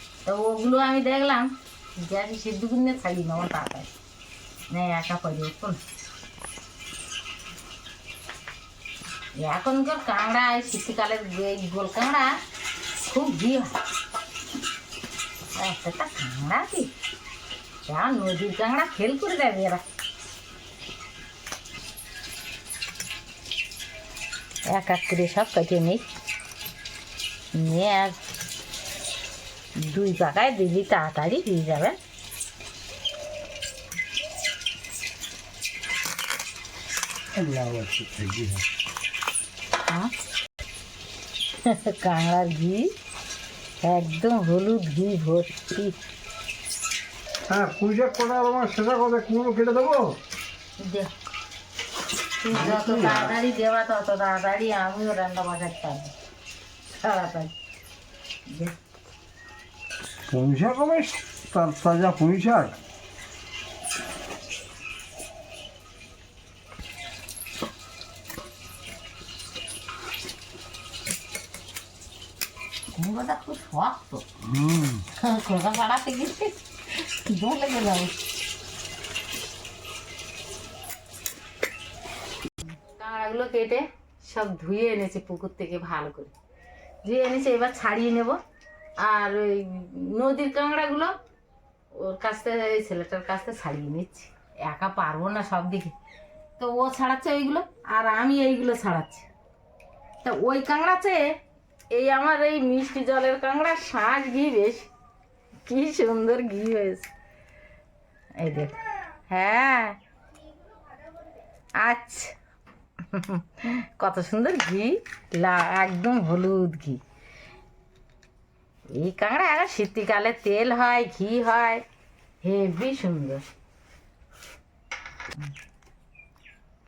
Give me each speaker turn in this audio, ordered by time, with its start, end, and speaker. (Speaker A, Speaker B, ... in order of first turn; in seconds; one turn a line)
Speaker A: 0.2-3.9
Speaker A: 4.7-5.8
Speaker A: 9.4-12.3
Speaker A: 13.0-13.7
Speaker A: 15.6-16.9
Speaker A: 17.9-19.8
Speaker A: 24.6-26.0
Speaker A: 27.5-28.2
Speaker A: 29.8-32.0
Speaker B: 37.4-38.6
Speaker A: 41.6-42.9
Speaker A: 43.8-46.0
Speaker B: 47.5-50.1
Speaker A: 50.8-51.1
Speaker A: 52.4-56.1
Speaker B: 52.5-53.4
Speaker A: 57.0-57.5
Speaker A: 58.5-58.7
Speaker B: 60.3-62.7
Speaker A: 72.9-74.2
Speaker B: 74.5-75.0
Speaker A: 75.2-78.1
Speaker A: 82.9-86.3
Speaker A: 87.0-88.4
Speaker A: 89.0-91.1
Speaker A: 91.9-95.9
Speaker A: 96.6-99.3
Speaker A: 100.2-101.3
Speaker A: 101.9-104.9
Speaker A: 105.7-107.1
Speaker A: 108.4-110.0
Speaker A: 111.8-112.3
Speaker A: 113.1-117.0
Speaker A: 118.9-121.8
Speaker A: 122.4-123.4